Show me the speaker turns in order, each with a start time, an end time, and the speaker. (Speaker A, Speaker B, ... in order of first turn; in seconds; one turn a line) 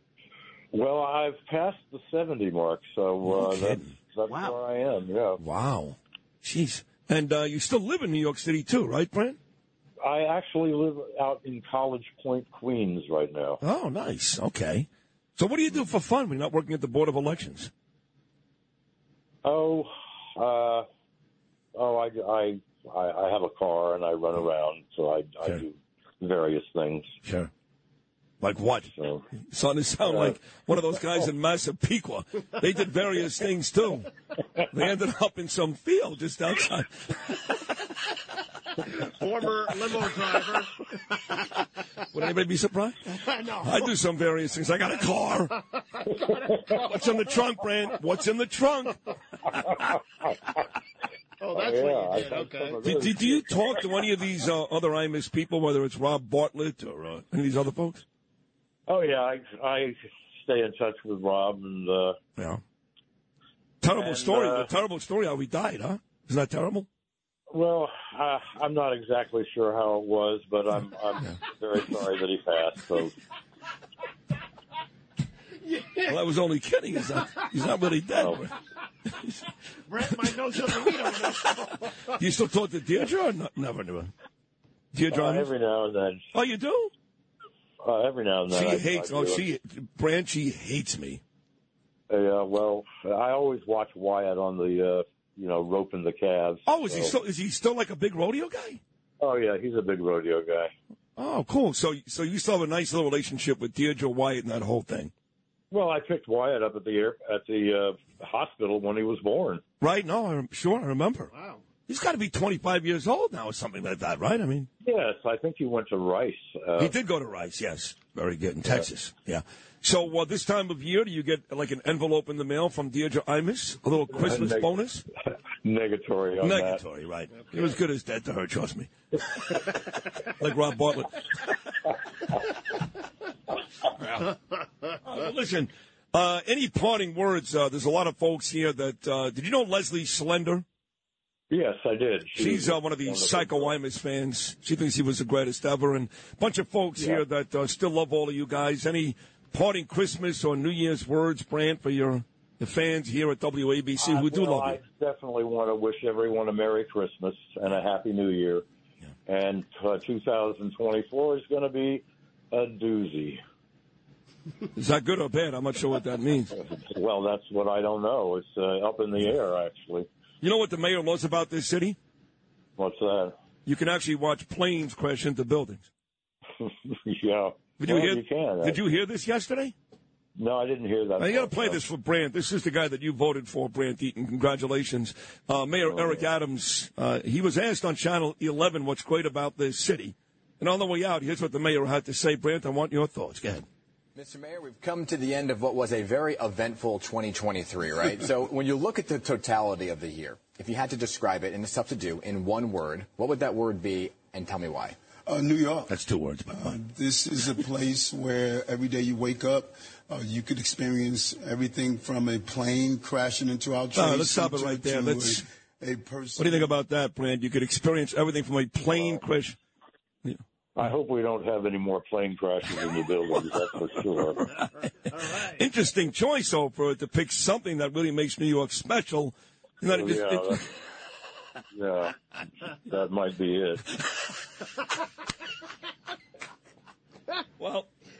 Speaker A: 0.7-5.4
Speaker B: 3.2-3.9
Speaker C: 4.3-4.6
Speaker B: 5.4-9.4
Speaker A: 10.0-13.6
Speaker B: 13.6-17.7
Speaker A: 19.4-20.9
Speaker A: 21.8-27.1
Speaker B: 27.2-27.5
Speaker B: 28.4-34.1
Speaker A: 28.9-29.2
Speaker B: 34.7-37.6
Speaker C: 38.8-41.5
Speaker B: 42.1-45.6
Speaker C: 43.2-43.9
Speaker C: 46.0-46.7
Speaker B: 46.7-49.0
Speaker C: 51.4-53.0
Speaker A: 51.5-53.5
Speaker B: 52.8-58.0
Speaker A: 58.9-62.2
Speaker B: 63.8-66.9
Speaker A: 63.9-64.7
Speaker A: 67.5-73.2
Speaker B: 76.0-78.5
Speaker A: 78.1-78.4
Speaker B: 79.1-79.5
Speaker C: 79.9-82.1
Speaker B: 82.1-84.1
Speaker B: 84.9-85.5
Speaker A: 85.1-86.3
Speaker B: 86.3-86.9
Speaker A: 87.8-89.5
Speaker B: 88.5-91.2
Speaker A: 92.1-97.1
Speaker B: 96.7-98.8
Speaker A: 99.2-100.7
Speaker B: 101.2-105.1
Speaker A: 105.7-109.6
Speaker B: 109.8-111.3
Speaker C: 111.3-111.6
Speaker B: 111.9-114.7
Speaker A: 114.8-116.9
Speaker B: 116.8-125.1
Speaker A: 124.1-124.7
Speaker A: 125.6-126.8
Speaker B: 126.4-129.6
Speaker B: 130.2-131.5
Speaker B: 134.0-134.3
Speaker B: 135.0-140.7
Speaker A: 141.5-143.8
Speaker B: 142.3-154.8
Speaker A: 154.0-158.6
Speaker A: 159.3-163.4
Speaker B: 164.8-166.6
Speaker A: 166.6-170.1
Speaker B: 170.4-172.0
Speaker A: 172.8-173.3
Speaker B: 173.7-175.9
Speaker A: 176.6-178.8
Speaker B: 177.8-179.7
Speaker A: 180.4-181.8
Speaker B: 181.2-193.7
Speaker D: 194.2-205.0
Speaker E: 205.3-205.9
Speaker B: 205.9-206.8
Speaker E: 206.5-216.8
Speaker B: 213.9-215.4
Speaker B: 216.4-219.6
Speaker A: 220.8-224.5
Speaker B: 224.6-230.7
Speaker A: 229.9-230.6
Speaker A: 231.7-233.9
Speaker B: 237.6-237.9